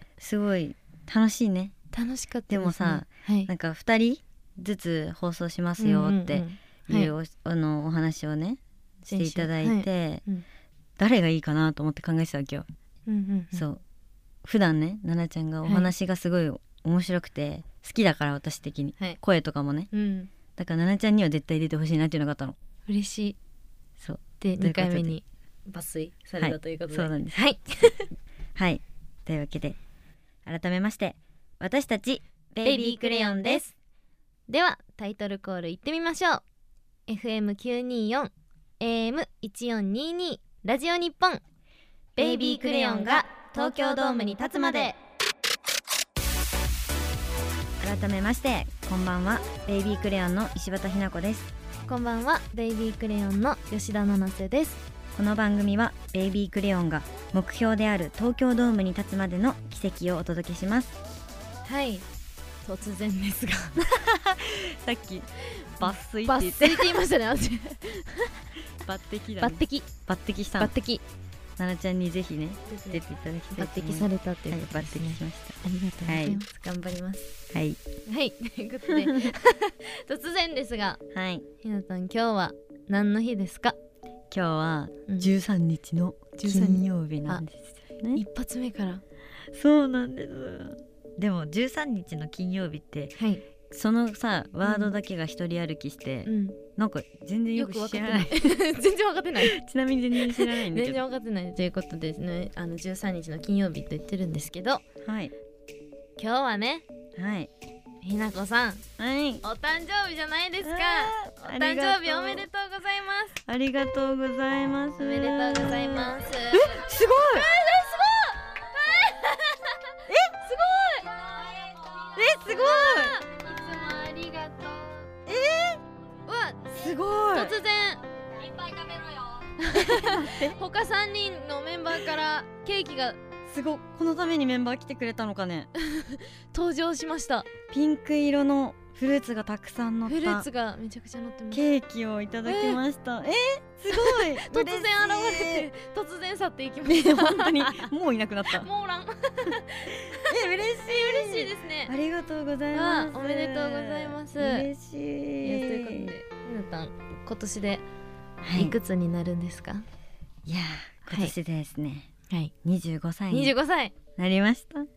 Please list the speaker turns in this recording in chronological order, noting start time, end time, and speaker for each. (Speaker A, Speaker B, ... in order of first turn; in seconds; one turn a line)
Speaker A: 0.2-1.7
Speaker B: 1.9-3.5
Speaker A: 2.5-10.2
Speaker B: 5.8-7.1
Speaker B: 9.1-10.4
Speaker A: 11.0-12.7
Speaker B: 13.1-13.7
Speaker A: 13.5-13.8
Speaker A: 14.4-19.9
Speaker B: 15.7-15.9
Speaker B: 19.9-20.3
Speaker A: 20.6-22.6
Speaker B: 22.9-23.4
Speaker A: 24.0-25.1
Speaker B: 24.4-28.1
Speaker A: 26.4-27.4
Speaker A: 28.6-29.8
Speaker A: 30.5-33.6
Speaker B: 32.6-33.8
Speaker B: 34.5-36.4
Speaker B: 37.1-41.4
Speaker B: 42.2-45.0
Speaker A: 42.2-44.9
Speaker A: 47.8-51.5
Speaker B: 51.9-54.8
Speaker A: 55.1-61.0
Speaker B: 61.6-62.1
Speaker B: 62.6-63.9
Speaker A: 63.9-67.0
Speaker B: 65.8-68.5
Speaker A: 68.8-70.7
Speaker B: 69.4-69.9
Speaker B: 70.6-71.0
Speaker A: 71.6-76.4
Speaker B: 72.7-73.0
Speaker B: 73.5-77.3
Speaker A: 77.5-77.8
Speaker B: 78.1-81.0
Speaker A: 78.9-79.3
Speaker A: 81.1-81.5
Speaker B: 81.6-83.8
Speaker A: 84.3-88.2
Speaker B: 86.4-87.4
Speaker B: 88.1-89.0
Speaker A: 89.5-93.2
Speaker A: 93.7-98.6
Speaker B: 94.7-94.9
Speaker B: 96.3-96.6
Speaker B: 97.6-99.6
Speaker A: 99.4-101.0
Speaker B: 100.2-104.8
Speaker A: 105.0-105.3
Speaker B: 106.2-106.8
Speaker A: 107.2-107.5
Speaker B: 108.0-108.8
Speaker A: 109.0-109.4
Speaker B: 109.4-113.4
Speaker A: 110.6-112.5
Speaker A: 113.5-117.5
Speaker B: 115.0-125.1
Speaker A: 120.1-120.4
Speaker A: 122.0-123.2
Speaker A: 125.3-125.8
Speaker B: 126.3-126.8
Speaker A: 126.7-127.6
Speaker B: 127.3-128.0
Speaker B: 128.6-133.2
Speaker A: 129.7-130.6
Speaker A: 133.5-135.7
Speaker B: 135.8-137.5
Speaker A: 137.7-140.5
Speaker B: 140.1-141.6
Speaker A: 141.5-145.7
Speaker B: 142.5-142.8
Speaker B: 143.9-147.9
Speaker A: 146.9-148.7
Speaker B: 148.5-151.9
Speaker A: 150.0-156.1
Speaker B: 152.7-154.7
Speaker B: 155.4-157.8
Speaker A: 158.4-158.8
Speaker B: 158.6-159.8
Speaker A: 160.5-162.1
Speaker A: 162.6-163.6
Speaker B: 163.3-163.9
Speaker A: 164.2-164.9